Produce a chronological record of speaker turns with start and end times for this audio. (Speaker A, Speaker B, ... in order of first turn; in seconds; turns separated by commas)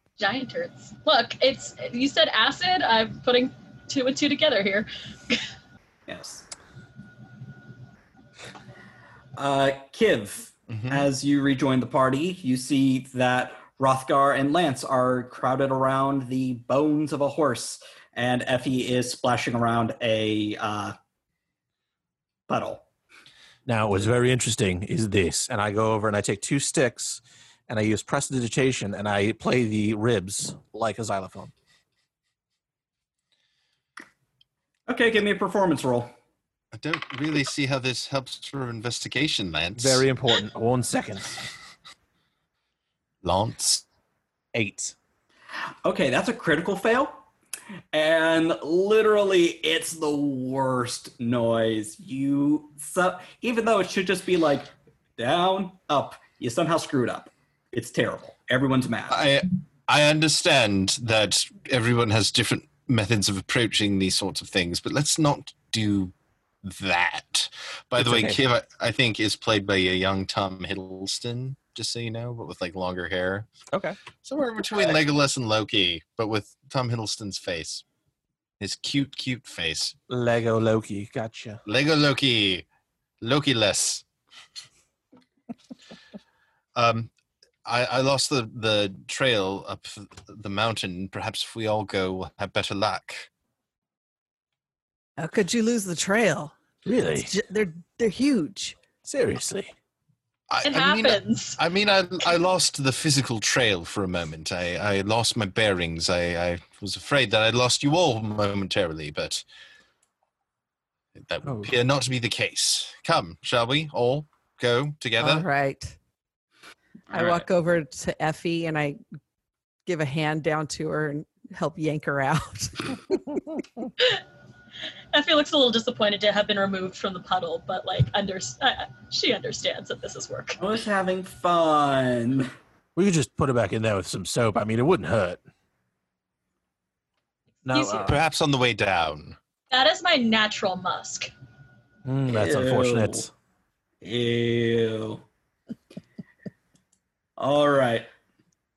Speaker A: 0.2-5.5, Speaker B: 6.1-6.5, Speaker B: 9.4-20.9, Speaker C: 10.7-11.1, Speaker B: 22.5-22.9, Speaker D: 23.7-31.5, Speaker B: 34.9-36.1, Speaker C: 36.7-40.0, Speaker D: 39.8-41.4, Speaker C: 43.2-43.8, Speaker D: 44.5-45.0, Speaker B: 45.8-47.2, Speaker B: 47.9-59.2, Speaker C: 59.1-73.5, Speaker D: 68.0-68.4, Speaker D: 73.7-74.0, Speaker C: 74.2-77.8, Speaker C: 78.6-80.0, Speaker D: 80.1-81.6, Speaker C: 81.7-82.7, Speaker C: 83.2-84.0, Speaker C: 86.8-87.1, Speaker C: 87.7-93.3, Speaker E: 95.2-96.5, Speaker D: 96.8-97.3, Speaker E: 97.2-98.8, Speaker D: 99.0-99.7, Speaker C: 100.5-109.4, Speaker A: 100.6-101.6, Speaker C: 111.2-115.5, Speaker D: 111.5-111.7, Speaker E: 115.2-116.0, Speaker B: 117.1-117.5, Speaker E: 117.1-119.0, Speaker E: 119.9-123.0, Speaker A: 125.1-130.6, Speaker B: 130.6-132.5, Speaker D: 132.9-135.4, Speaker D: 137.7-138.2, Speaker A: 137.7-138.2, Speaker C: 138.0-139.4, Speaker A: 139.7-141.3, Speaker D: 142.1-143.3, Speaker B: 142.3-143.3, Speaker B: 144.0-145.2, Speaker B: 147.4-148.1